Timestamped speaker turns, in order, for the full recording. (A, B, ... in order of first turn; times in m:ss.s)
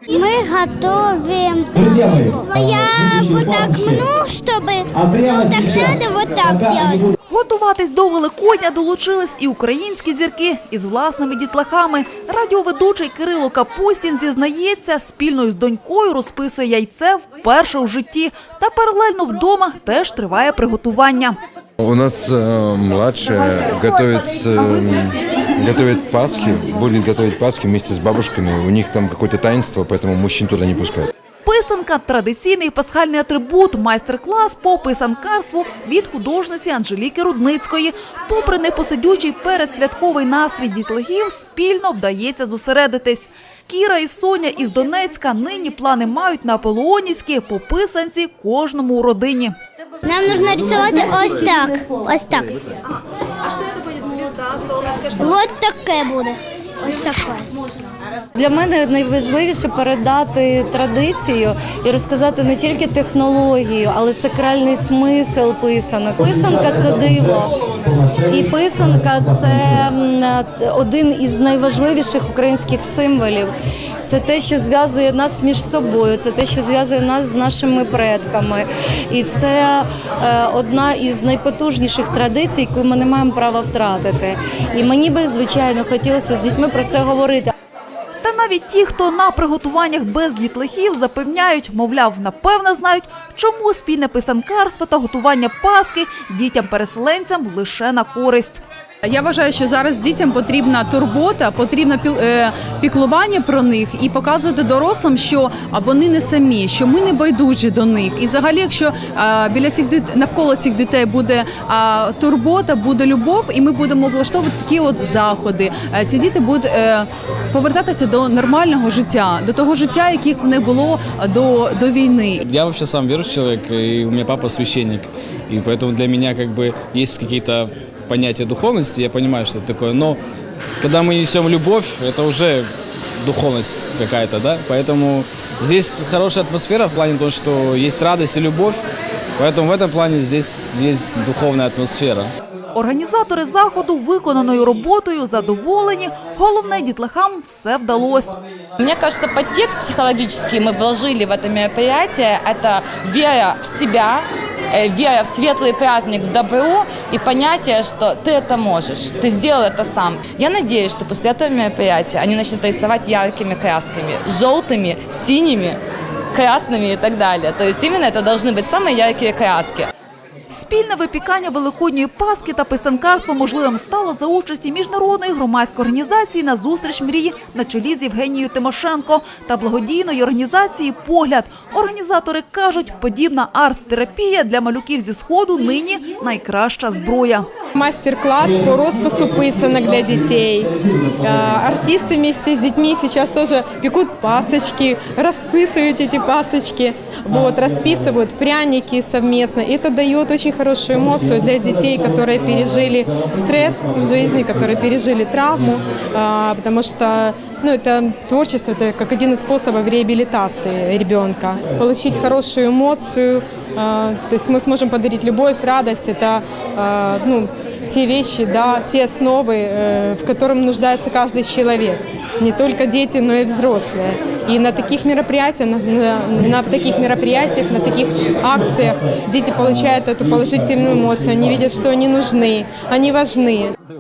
0:00.1-0:07.1 A
0:01.9-0:02.3 B
0:03.0-0:04.0 B
0:05.0-0:05.9 B
0:06.4-0:07.1 B
0:07.3-0:21.4 C
0:21.8-0:31.1 D
0:31.4-0:49.6 C
0:50.0-0:52.8 A
0:55.0-0:57.5 A
0:58.4-1:07.5 E
1:08.2-1:13.5 E
1:14.0-1:27.5 E
1:28.2-1:38.6 C
1:39.1-2:02.4 F
2:02.4-2:10.2 B
2:10.8-2:12.7 B
2:13.2-2:18.8 B
2:19.4-2:22.3 B
2:22.7-2:28.4 C
2:28.8-2:45.8 G
2:46.3-2:49.9 G
2:50.5-3:07.5 C
3:07.8-3:53.7 H